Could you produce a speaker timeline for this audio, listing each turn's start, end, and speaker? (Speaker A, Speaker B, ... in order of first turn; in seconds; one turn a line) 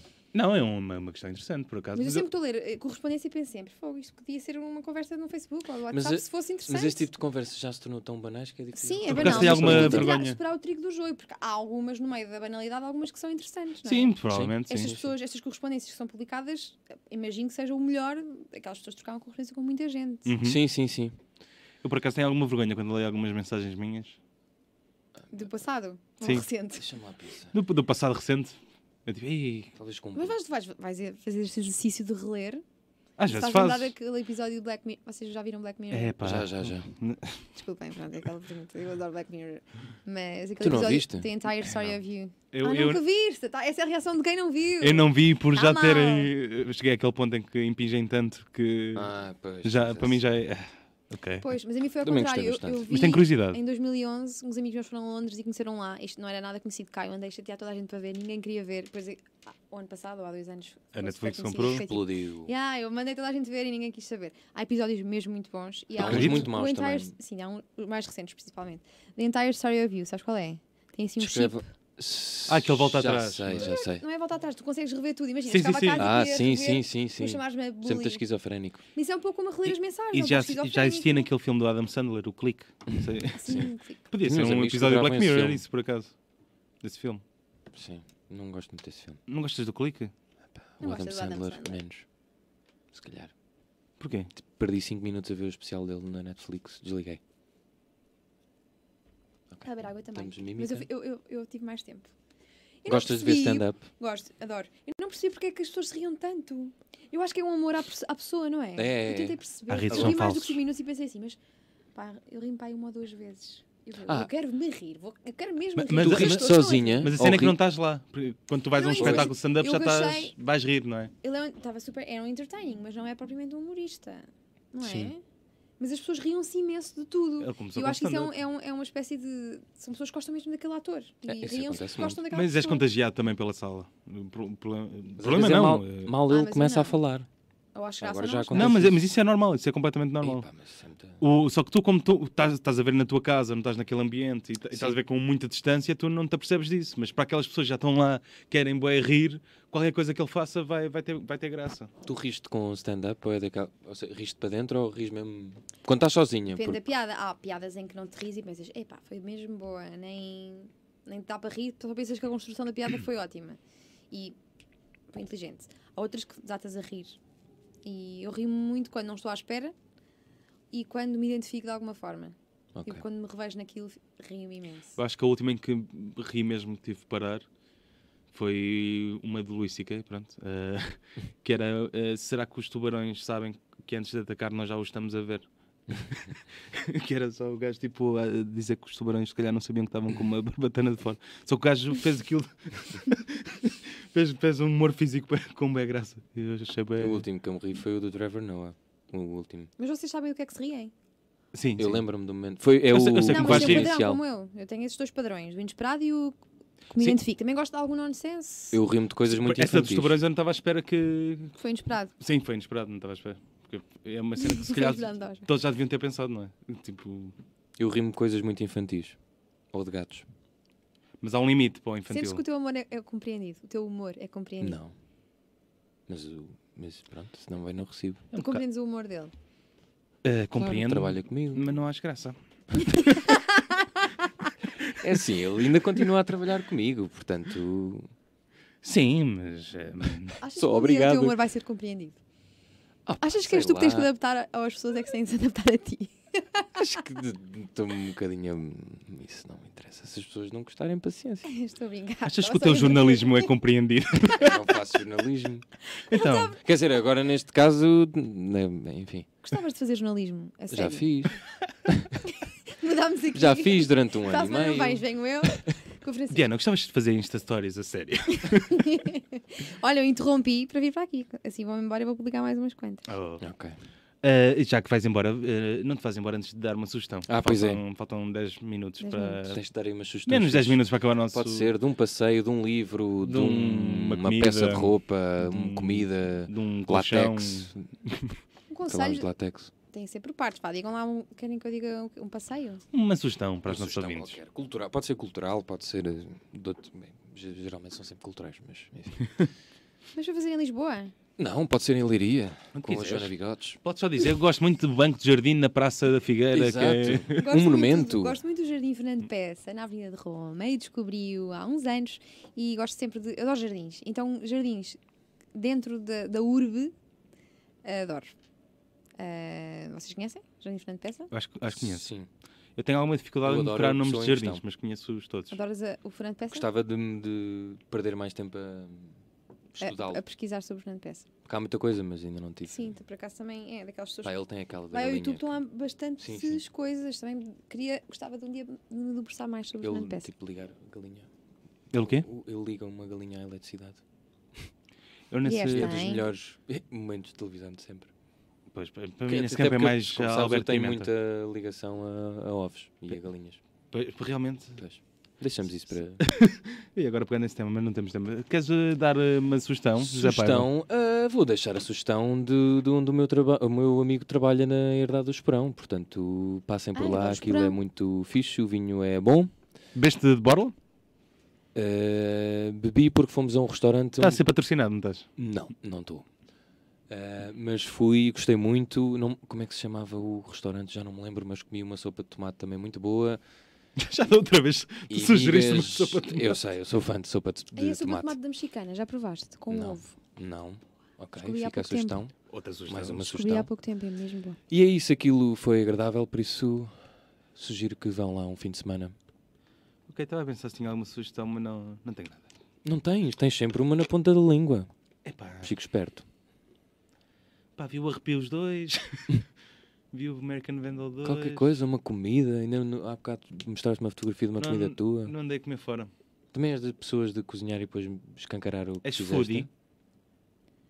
Speaker A: 0.3-2.3
Speaker B: 1.9-7.1
Speaker C: 5.9-10.2
Speaker B: 8.8-20.4
Speaker A: 9.1-10.4
Speaker A: 13.8-14.9
Speaker C: 14.3-15.1
Speaker A: 20.3-20.6
Speaker C: 20.4-21.2
Speaker A: 21.8-24.2
Speaker C: 25.2-25.5
Speaker B: 25.3-26.9
Speaker A: 26.2-26.5
Speaker C: 26.8-27.6
Speaker A: 27.5-29.7
Speaker C: 29.8-30.4
Speaker B: 30.1-32.6
Speaker A: 33.2-33.9
Speaker B: 33.3-36.2
Speaker A: 35.9-37.5
Speaker C: 36.2-36.9
Speaker B: 37.6-46.3
Speaker C: 40.6-41.3
Speaker A: 42.5-43.0
Speaker A: 44.8-49.1
Speaker C: 48.9-50.2
Speaker A: 49.6-51.5
Speaker B: 51.4-71.7
Speaker C: 52.0-52.9
Speaker A: 52.9-53.6
Speaker A: 61.0-61.8
Speaker C: 61.7-62.5
Speaker C: 66.0-67.1
Speaker A: 66.0-66.5
Speaker C: 71.2-74.0
Speaker A: 72.5-73.7
Speaker B: 73.5-78.2
Speaker A: 75.5-76.1
Speaker C: 76.0-78.8
Speaker B: 78.9-81.3
Speaker A: 80.1-86.1
Speaker B: 83.3-84.0
Speaker C: 84.2-85.6
Speaker A: 86.8-87.2
Speaker C: 87.7-89.2
Speaker A: 89.3-90.1
Speaker C: 90.7-92.1
Speaker B: 90.8-91.8
Speaker C: 92.9-93.3
Speaker A: 94.0-94.3
Speaker C: 94.6-97.2
Speaker C: 99.5-100.9
Speaker B: 99.6-102.1
Speaker B: 102.8-111.4
Speaker C: 102.9-103.8
Speaker C: 108.8-110.2
Speaker A: 109.7-110.6
Speaker B: 112.0-117.1
Speaker A: 115.8-121.1
Speaker C: 116.0-117.6
Speaker B: 118.7-120.3
Speaker C: 119.0-119.3
Speaker B: 121.2-125.2
Speaker C: 124.8-125.1
Speaker B: 125.8-132.8
Speaker A: 127.4-128.3
Speaker C: 131.3-132.2
Speaker A: 132.3-136.1
Speaker C: 135.2-137.3
Speaker B: 136.3-137.0
Speaker B: 137.8-138.8
Speaker C: 138.0-139.0
Speaker A: 138.5-140.5
Speaker C: 140.2-141.2
Speaker A: 141.2-151.9
Speaker C: 144.7-145.0
Speaker C: 152.0-156.8
Speaker B: 156.6-163.6
Speaker B: 165.1-167.2
Speaker B: 167.8-169.8
Speaker B: 170.7-175.0
Speaker C: 172.8-173.1
Speaker A: 175.0-177.4
Speaker A: 178.3-197.2
Speaker C: 197.0-199.7
Speaker B: 199.8-200.9
Speaker A: 201.5-202.0
Speaker C: 201.8-204.2
Speaker A: 202.9-203.9
Speaker B: 203.2-206.4
Speaker B: 206.9-208.8
Speaker C: 208.7-210.2
Speaker A: 209.3-211.6
Speaker B: 211.6-212.1
Speaker A: 212.2-217.3
Speaker B: 214.4-215.5
Speaker C: 217.8-219.2
Speaker C: 219.7-220.2
Speaker A: 221.2-222.4
Speaker B: 222.1-224.8
Speaker C: 224.6-224.9
Speaker C: 226.1-228.3
Speaker A: 228.3-228.6
Speaker B: 228.3-229.3
Speaker A: 230.2-233.4
Speaker C: 230.6-231.8
Speaker B: 232.8-234.5
Speaker C: 235.0-238.1
Speaker A: 238.8-240.4
Speaker B: 240.4-242.2
Speaker C: 240.6-241.4
Speaker C: 243.1-244.1
Speaker B: 243.2-246.7
Speaker C: 246.8-251.5
Speaker B: 251.4-253.5
Speaker A: 252.3-254.6
Speaker C: 254.4-255.7
Speaker B: 255.9-256.6
Speaker A: 256.1-256.5
Speaker C: 256.6-259.3
Speaker B: 259.4-261.1
Speaker C: 260.7-262.2
Speaker B: 262.2-266.5
Speaker C: 263.3-265.7
Speaker A: 266.3-268.9
Speaker B: 268.3-273.0
Speaker A: 273.1-273.4
Speaker C: 273.4-273.8
Speaker A: 274.2-279.6
Speaker C: 277.3-277.8
Speaker B: 279.0-279.4
Speaker C: 279.4-280.8
Speaker A: 280.3-281.7
Speaker C: 281.3-287.9
Speaker A: 283.2-288.3
Speaker B: 288.7-289.3
Speaker C: 288.9-289.7
Speaker B: 289.9-292.8
Speaker A: 292.9-294.4
Speaker C: 293.7-299.3
Speaker B: 300.1-301.1
Speaker C: 301.4-303.8
Speaker A: 302.8-303.3
Speaker A: 303.8-307.4
Speaker C: 306.5-308.4
Speaker B: 307.3-315.0
Speaker B: 315.6-316.9
Speaker B: 317.8-318.3
Speaker B: 319.2-321.3
Speaker A: 321.3-322.1
Speaker C: 321.7-322.3
Speaker A: 322.8-325.6
Speaker C: 323.4-324.6
Speaker B: 325.5-326.7
Speaker C: 326.5-329.2
Speaker C: 329.7-330.2
Speaker B: 329.8-331.3
Speaker C: 331.4-332.9
Speaker B: 332.7-334.4
Speaker C: 334.2-335.6
Speaker B: 334.9-340.3
Speaker C: 336.2-336.6
Speaker C: 339.8-341.3
Speaker A: 341.9-342.3
Speaker C: 342.0-344.0
Speaker A: 345.3-346.1
Speaker B: 345.4-346.3
Speaker C: 345.7-348.1
Speaker A: 348.7-351.1
Speaker C: 349.3-353.6
Speaker A: 353.9-354.8
Speaker C: 354.8-356.2
Speaker A: 356.2-360.7
Speaker C: 360.0-369.5
Speaker B: 366.9-367.8
Speaker A: 369.9-370.7
Speaker C: 371.8-374.4
Speaker A: 374.2-375.3
Speaker C: 375.4-376.3
Speaker C: 377.1-383.4
Speaker A: 384.0-386.6
Speaker C: 385.1-388.4
Speaker B: 387.8-390.1
Speaker C: 389.7-392.3
Speaker B: 391.4-392.2
Speaker A: 392.5-393.3
Speaker C: 392.9-393.7
Speaker B: 393.2-394.6
Speaker C: 394.7-396.9
Speaker C: 397.6-399.1
Speaker A: 400.1-402.5
Speaker C: 402.8-404.9
Speaker A: 405.2-405.7
Speaker C: 405.6-406.2
Speaker A: 407.8-409.5
Speaker A: 410.1-411.7
Speaker C: 411.2-415.3
Speaker A: 414.6-416.1
Speaker C: 416.5-419.7
Speaker A: 419.0-419.7